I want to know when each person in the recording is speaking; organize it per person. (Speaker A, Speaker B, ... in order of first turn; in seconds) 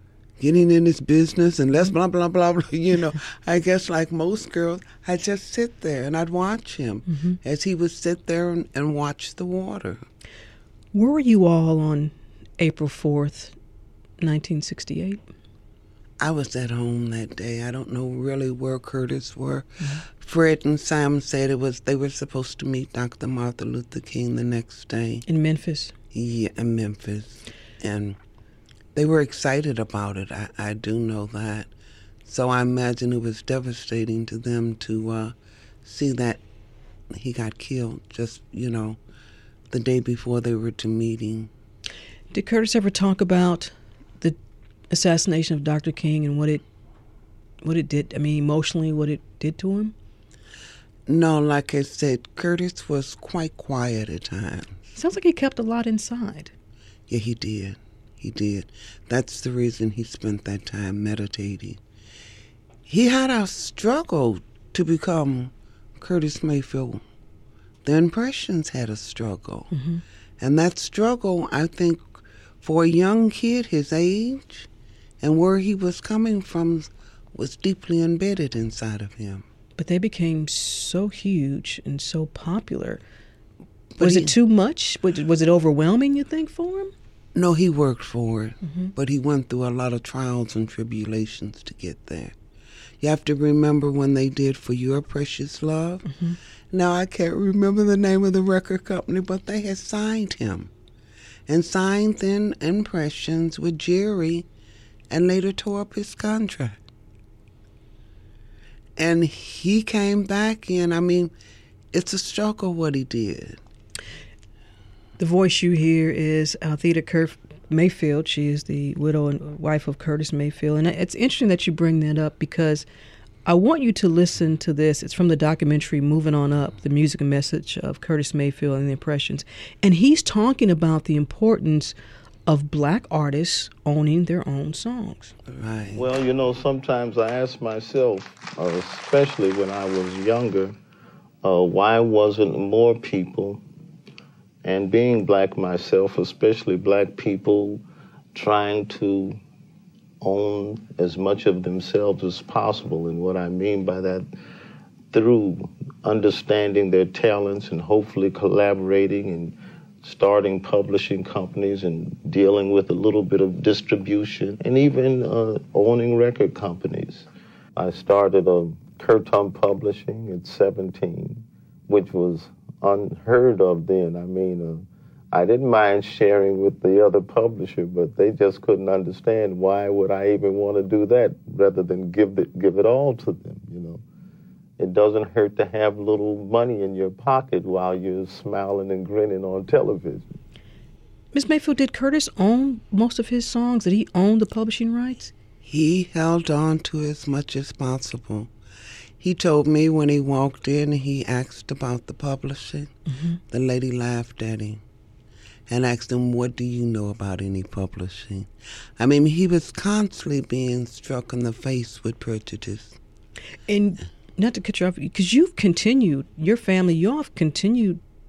Speaker A: 0.4-10.0, 16.2-25.2, 26.1-28.2, 28.9-31.7, 32.2-35.3, 35.8-36.4, 37.1-39.0, 39.7-41.5, 51.1-54.8, 57.1-61.8, 62.9-67.0, 67.8-69.7, 70.4-74.7, 75.2-79.5, 84.0-84.3, 87.3-92.3, 93.0-96.1, 96.7-100.7, 101.5-104.5, 105.1-106.8, 109.0-111.3, 111.9-113.6, 135.5-136.0, 195.6-198.5, 199.2-202.9, 203.5-204.8, 205.7-212.9
Speaker B: 7.1-7.4, 10.9-13.5, 14.2-15.2, 25.2-25.9, 42.3-44.4, 44.9-46.6, 47.6-49.9, 54.9-56.5, 69.7-70.0, 79.8-83.0, 84.0-86.9, 88.6-88.9, 96.0-96.4, 115.2-122.8, 123.4-131.9, 132.5-135.3, 191.3-195.3, 203.1-203.4, 213.7-218.0
Speaker C: 135.9-140.7, 141.4-143.6, 144.6-147.8, 148.3-149.4, 150.2-154.3, 155.1-184.0, 184.8-190.3